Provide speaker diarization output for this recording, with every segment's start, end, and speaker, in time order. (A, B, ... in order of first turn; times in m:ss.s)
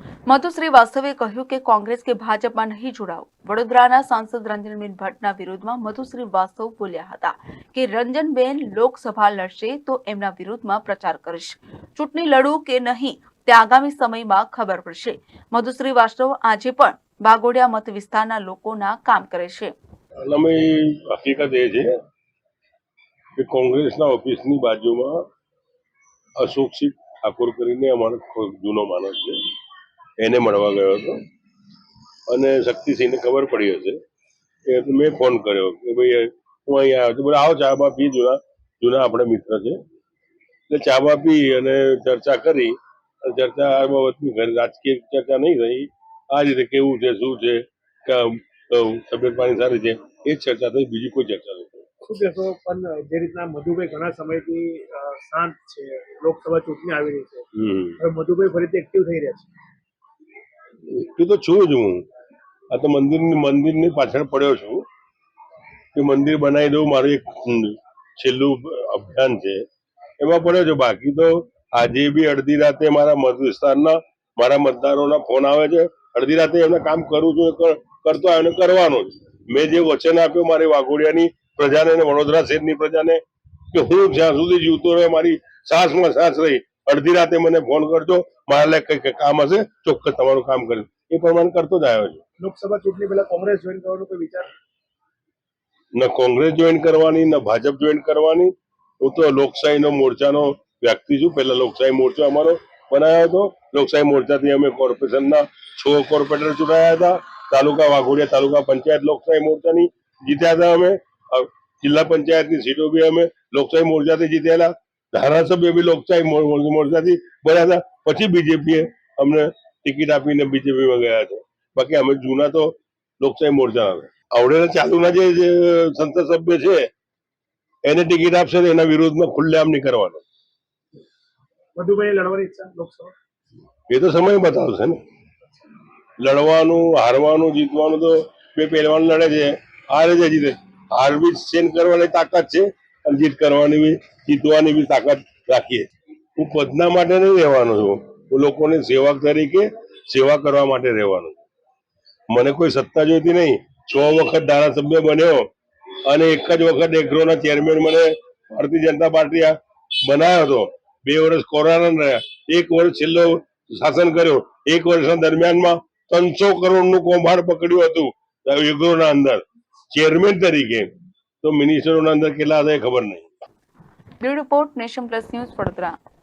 0:00.3-0:19.7 A
0:20.2-0:21.9 B
0:23.4-0:25.3 B
0:26.4-0:29.4 B
0:30.2-0:31.2 B
0:32.3-0:34.0 B
0:34.7-0:39.8 B
0:40.7-0:51.9 B
0:52.0-0:59.5 C
0:57.6-0:57.9 B
1:00.9-1:02.0 B
1:02.7-1:04.8 B
1:06.0-1:09.6 B
1:10.2-1:23.2 B
1:23.7-1:32.2 B
1:32.4-1:34.5 C
1:36.0-2:06.9 B
2:07.8-2:10.2 B
2:11.8-2:13.1 C
2:13.9-2:15.0 B
2:16.2-2:31.4 B
2:32.3-2:35.5 B
2:36.1-2:50.9 B
2:51.4-2:53.3 B
2:54.2-2:56.0 A